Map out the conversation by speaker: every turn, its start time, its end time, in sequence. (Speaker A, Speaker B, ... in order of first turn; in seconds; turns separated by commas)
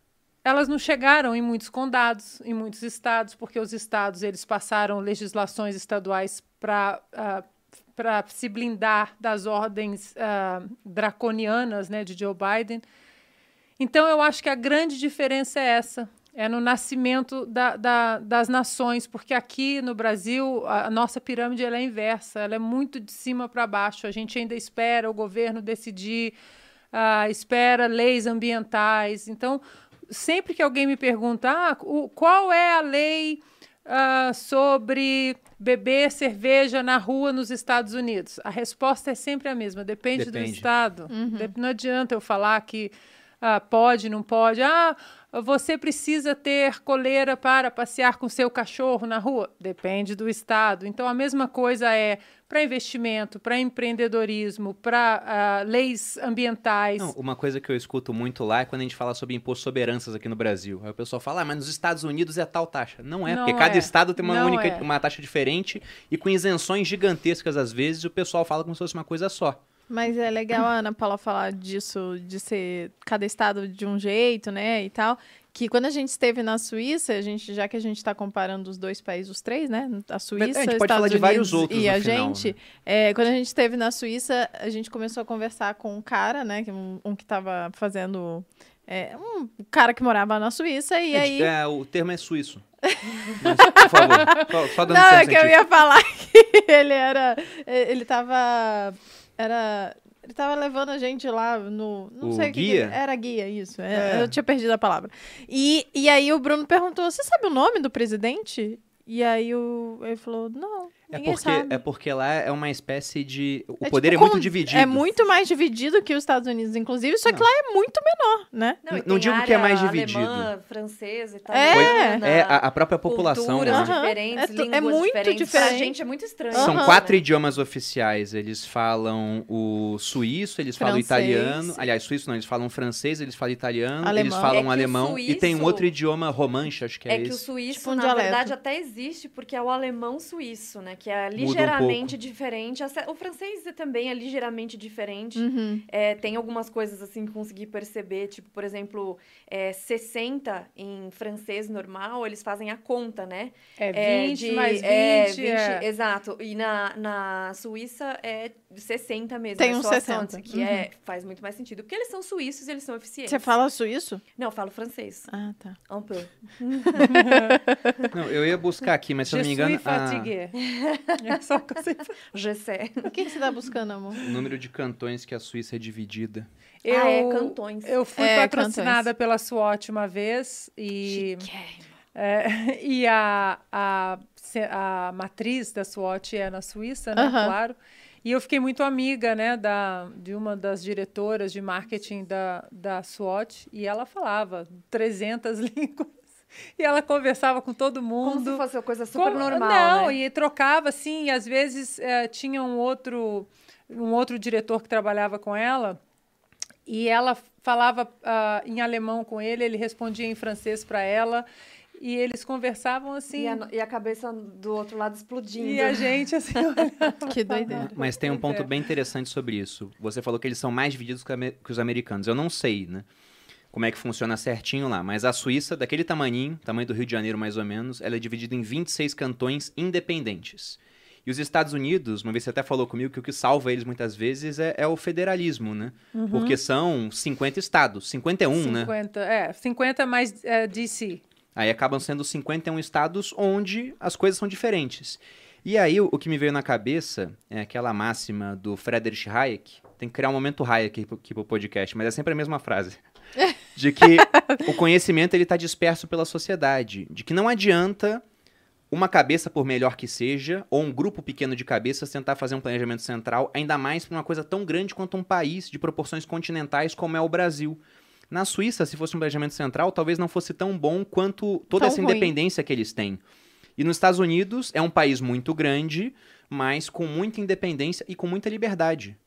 Speaker A: 0.4-12.8, Speaker A: 13.8-26.4, Speaker A: 26.9-57.1, Speaker B: 40.1-40.7, Speaker C: 41.1-41.5, Speaker B: 57.0-69.6, Speaker A: 63.2-64.9, Speaker C: 69.9-91.5, Speaker B: 80.4-82.5, Speaker B: 91.1-92.6, Speaker C: 92.9-111.8, Speaker B: 93.4-95.6, Speaker B: 102.2-103.0, Speaker B: 103.9-104.4, Speaker B: 111.1-115.1, Speaker C: 113.8-118.8, Speaker D: 118.8-127.2, Speaker B: 118.9-120.5, Speaker C: 121.5-122.2, Speaker B: 121.7-123.9, Speaker C: 123.7-125.9, Speaker C: 126.5-127.0, Speaker B: 126.6-137.4, Speaker C: 130.8-131.8, Speaker C: 134.0-134.6, Speaker D: 134.5-135.9, Speaker D: 137.1-163.5, Speaker C: 137.7-138.5, Speaker B: 141.4-142.1, Speaker C: 145.3-145.8, Speaker A: 153.8-155.8, Speaker C: 159.6-160.8, Speaker C: 163.2-164.2, Speaker D: 164.4-165.3, Speaker C: 165.3-165.8, Speaker D: 165.9-167.5, Speaker C: 167.0-168.0, Speaker A: 167.1-167.4, Speaker B: 168.1-170.3, Speaker A: 169.3-170.6, Speaker D: 170.6-171.3, Speaker A: 171.2-172.1, Speaker D: 172.3-173.1, Speaker C: 173.0-174.2, Speaker B: 174.2-176.5, Speaker A: 176.8-181.5, Speaker D: 176.9-177.9, Speaker C: 178.2-179.1, Speaker D: 181.1-181.8, Speaker A: 182.1-196.1, Speaker C: 187.1-187.6, Speaker A: 196.8-198.6, Speaker D: 198.2-200.2, Speaker A: 199.1-206.0, Speaker A: 206.9-211.4, Speaker A: 212.0-213.6, Speaker D: 213.3-216.1, Speaker A: 215.6-218.7, Speaker C: 217.2-217.9, Speaker B: 217.7-223.1, Speaker B: 223.7-238.9, Speaker A: 236.1-236.6, Speaker A: 238.6-241.2, Speaker B: 241.6-253.0, Speaker B: 253.7-258.2, Speaker C: 254.2-254.6, Speaker B: 258.9-267.8, Speaker B: 268.3-273.2, Speaker C: 271.8-272.4, Speaker B: 273.8-279.2